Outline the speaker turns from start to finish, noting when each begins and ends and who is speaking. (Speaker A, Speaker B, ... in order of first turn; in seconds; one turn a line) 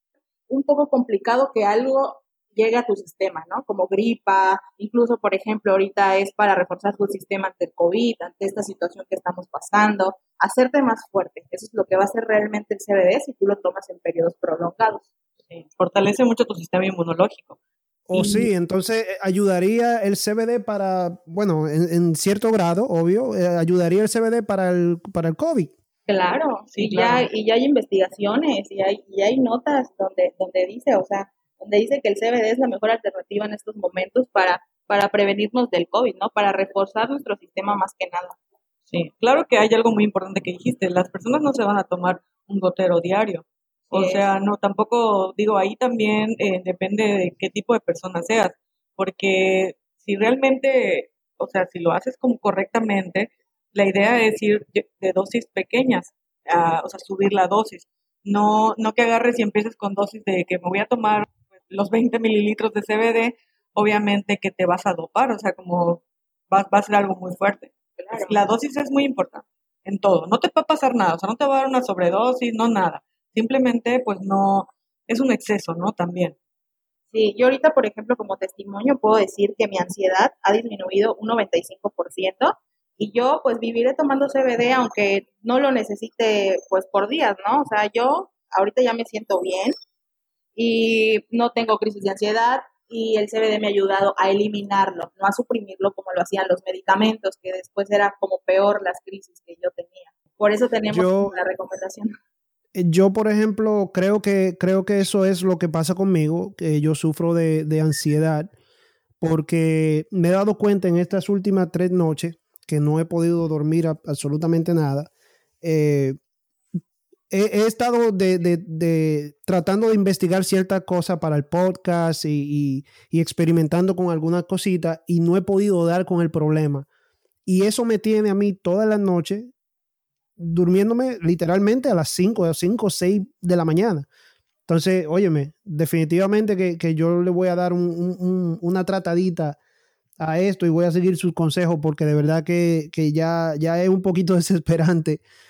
Speaker A: 0.5-15.1
Speaker B: 15.5-17.6
Speaker C: 18.1-25.7
Speaker B: 18.1-18.5
Speaker A: 26.1-38.4
Speaker B: 26.7-27.3
Speaker B: 38.9-76.4
Speaker A: 43.9-44.3
Speaker A: 68.0-68.4
Speaker A: 77.1-89.8
Speaker A: 90.6-102.1
Speaker C: 100.9-101.4
Speaker C: 102.8-108.5
Speaker C: 109.2-115.1
Speaker C: 115.6-116.2
Speaker C: 117.3-126.9
Speaker C: 127.5-129.5
Speaker C: 130.4-134.1
Speaker C: 134.7-139.6
Speaker C: 140.2-145.2